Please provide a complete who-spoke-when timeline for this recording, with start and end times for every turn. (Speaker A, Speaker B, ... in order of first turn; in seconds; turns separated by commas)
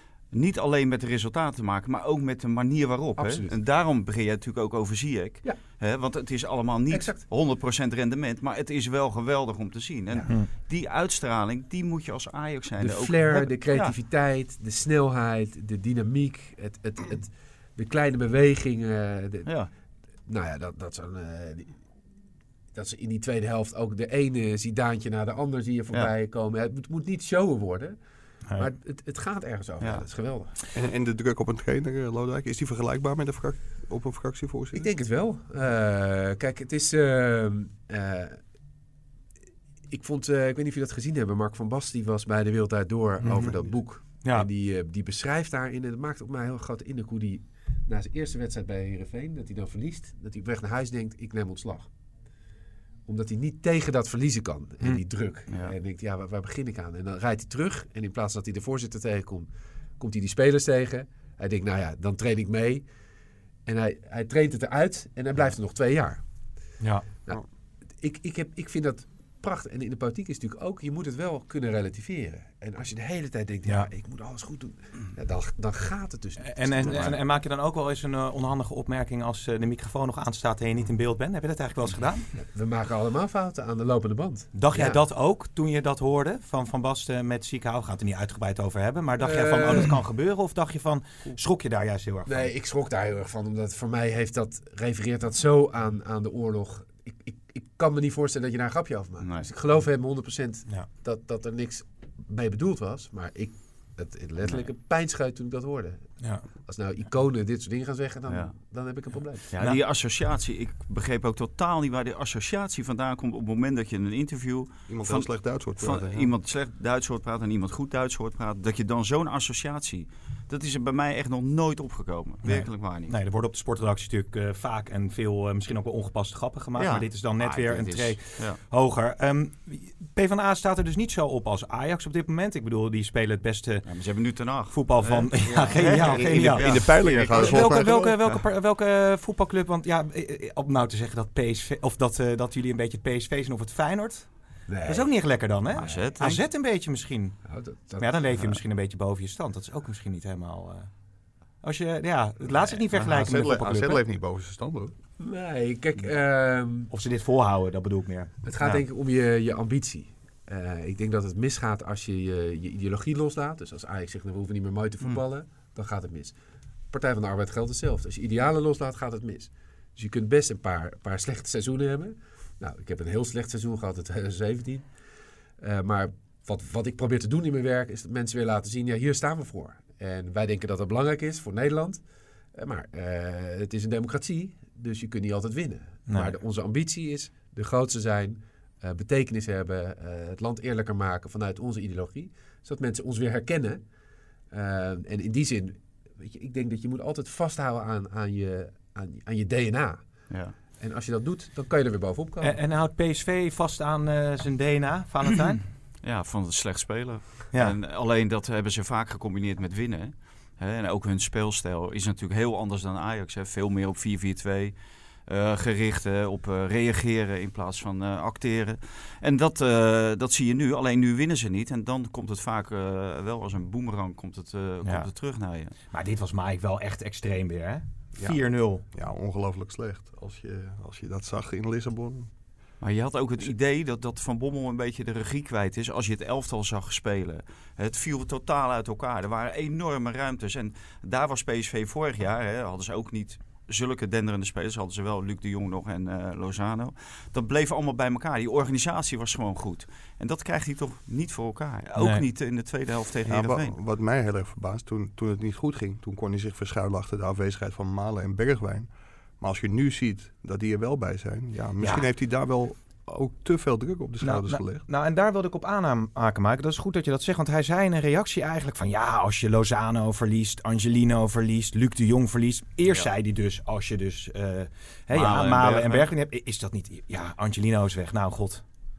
Speaker A: 0.3-13.9, Speaker B: 3.2-3.5, Speaker B: 6.9-7.2, Speaker B: 12.8-19.5, Speaker B: 20.2-21.8, Speaker B: 22.7-28.0, Speaker B: 28.6-30.5, Speaker C: 30.7-34.9, Speaker B: 34.7-38.4, Speaker B: 39.9-51.9, Speaker D: 43.2-44.5, Speaker B: 53.0-62.9, Speaker B: 63.6-66.2, Speaker D: 66.8-67.0, Speaker B: 67.2-77.2, Speaker D: 76.4-82.3, Speaker A: 76.9-77.2, Speaker B: 82.4-85.0, Speaker D: 84.5-92.5, Speaker B: 89.2-90.0, Speaker B: 92.2-109.5, Speaker A: 99.2-99.5, Speaker A: 108.3-108.6, Speaker A: 109.5-123.1, Speaker C: 114.9-116.3, Speaker D: 122.4-133.9, Speaker A: 126.8-128.6, Speaker A: 133.8-138.4, Speaker D: 134.7-147.4, Speaker C: 136.0-138.2, Speaker B: 144.7-146.4, Speaker A: 145.8-146.4, Speaker B: 147.4-148.5, Speaker D: 148.0-150.9, Speaker D: 151.6-154.0, Speaker C: 152.9-154.9, Speaker B: 155.2-156.9, Speaker D: 156.9-158.3, Speaker B: 158.4-166.4, Speaker B: 166.9-174.9, Speaker B: 175.6-193.8, Speaker D: 186.1-186.3, Speaker B: 194.5-202.6, Speaker A: 200.3-200.5, Speaker D: 202.4-205.6, Speaker A: 206.0-214.7, Speaker A: 215.3-225.7, Speaker D: 225.9-228.8, Speaker C: 228.2-232.3, Speaker A: 232.8-253.8, Speaker D: 252.0-252.2, Speaker C: 253.3-264.8, Speaker D: 261.8-262.1, Speaker D: 264.2-278.7, Speaker A: 272.9-273.1, Speaker A: 275.1-276.1